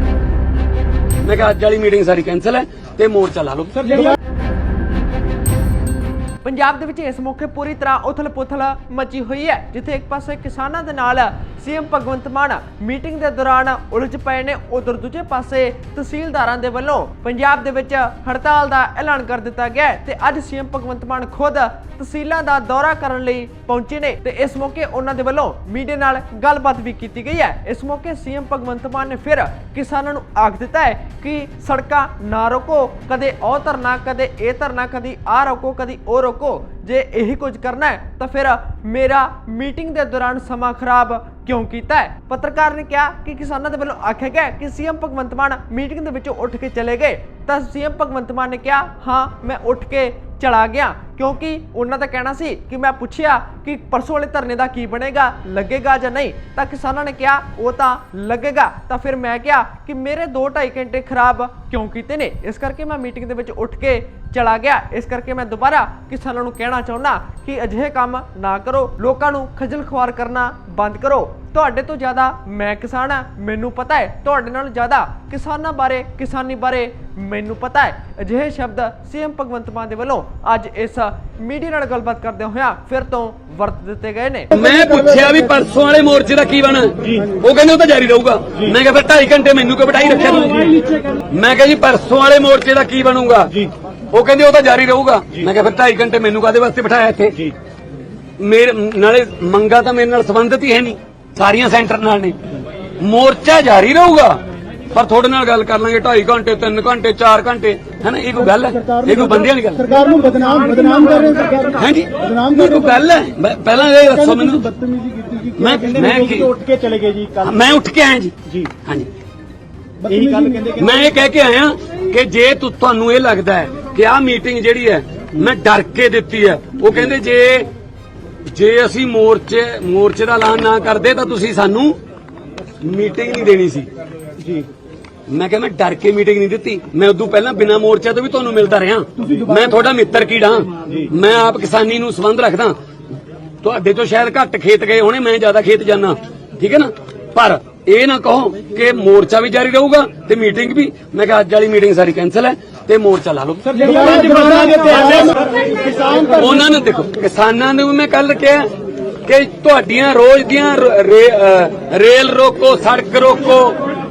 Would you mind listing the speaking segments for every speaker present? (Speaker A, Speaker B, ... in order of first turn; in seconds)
Speaker A: 1.2-4.2, 84.5-97.5, 98.4-102.4, 103.0-104.4, 104.9-110.0, 111.8-114.7, 115.6-116.5, 117.4-119.1, 120.8-127.7, 128.5-132.0, 132.8-133.9, 135.3-142.8, 143.6-155.4, 156.3-158.7, 159.2-163.8
Speaker B: 6.5-84.5
Speaker C: 108.7-113.0, 114.1-117.5, 120.0-121.0, 153.8-156.5